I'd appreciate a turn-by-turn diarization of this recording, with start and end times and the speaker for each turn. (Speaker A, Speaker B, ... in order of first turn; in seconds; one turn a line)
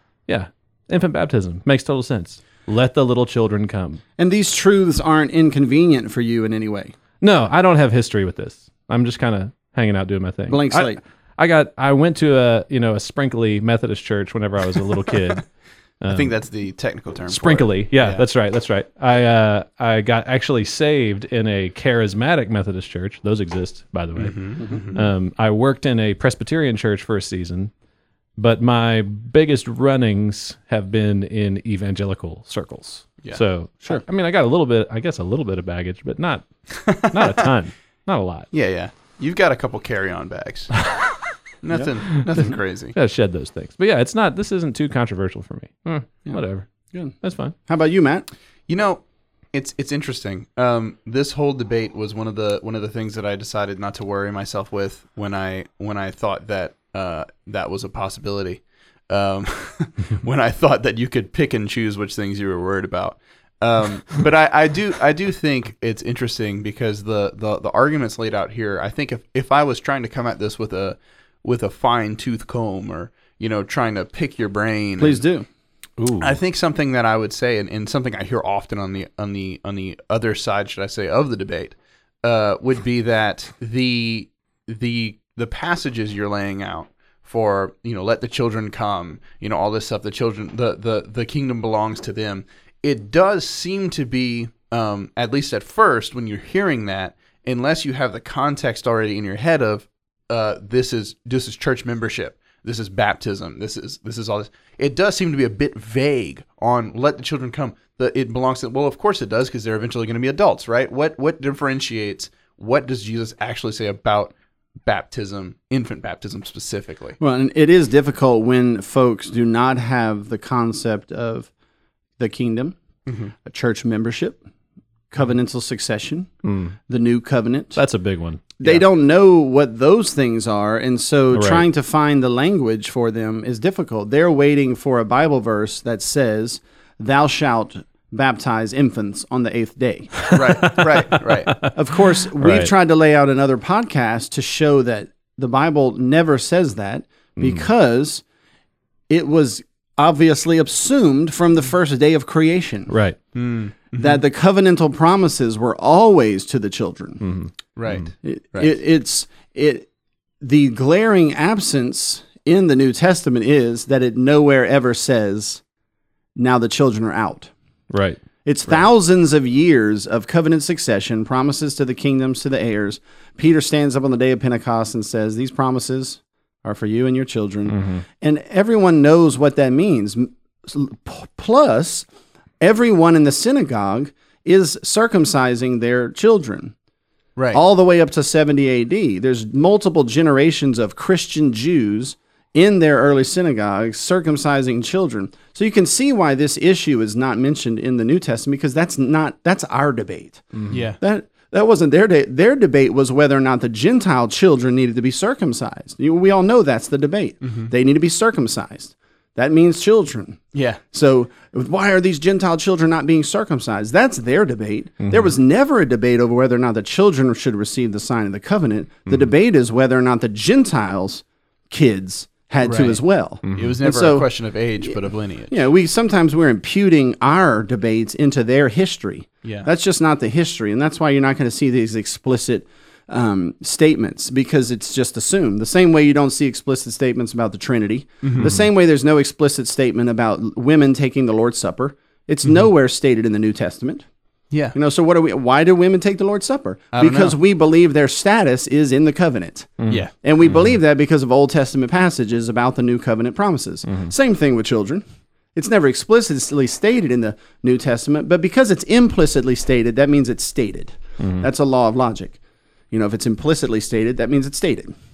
Speaker A: 0.3-4.0
Speaker B: 4.2-6.9
Speaker A: 7.2-15.5
Speaker B: 10.5-11.0
Speaker A: 16.0-16.3
Speaker C: 16.1-18.3
Speaker A: 17.3-27.7
Speaker C: 24.2-25.1
Speaker A: 28.4-38.5
Speaker C: 36.9-37.3
Speaker C: 38.5-40.8
Speaker C: 41.6-42.9
Speaker A: 42.9-46.7
Speaker B: 46.9-48.3
Speaker A: 47.2-47.5
Speaker C: 48.7-49.0
Speaker C: 49.5-75.2
Speaker B: 75.0-75.5
Speaker A: 76.0-76.4
Speaker C: 76.2-114.3
Speaker C: 114.9-117.2
Speaker B: 117.2-121.5
Speaker B: 122.2-122.8
Speaker C: 123.1-123.3
Speaker B: 123.4-124.4
Speaker B: 125.1-126.3
Speaker A: 126.4-126.8
Speaker B: 126.9-127.8
Speaker A: 127.8-128.8
Speaker B: 128.6-140.2
Speaker A: 131.3-131.7
Speaker C: 140.3-141.6
Speaker A: 140.3-142.7
Speaker B: 141.7-148.2
Speaker A: 147.4-147.7
Speaker B: 149.1-152.9
Speaker A: 152.9-153.2
Speaker C: 153.3-154.2
Speaker B: 154.0-157.2
Speaker A: 157.2-157.5
Speaker C: 157.8-158.8
Speaker B: 158.2-159.9
Speaker B: 160.4-165.6
Speaker B: 166.4-167.5
Speaker A: 167.9-168.2
Speaker B: 168.4-182.1
Speaker A: 177.7-178.0
Speaker B: 182.6-186.7
Speaker B: 187.5-244.1
Speaker A: 200.6-200.8
Speaker C: 200.7-201.0
Speaker C: 207.4-207.7
Speaker C: 210.5-210.8
Speaker A: 215.0-215.3
Speaker C: 222.6-225.7
Speaker A: 223.4-223.8
Speaker C: 229.4-229.7
Speaker C: 238.2-238.5
Speaker A: 238.4-238.6
Speaker C: 244.5-244.8
Speaker B: 244.7-255.0
Speaker C: 246.9-247.4
Speaker A: 249.8-250.1
Speaker B: 255.6-262.4
Speaker A: 261.2-261.5
Speaker B: 262.9-264.9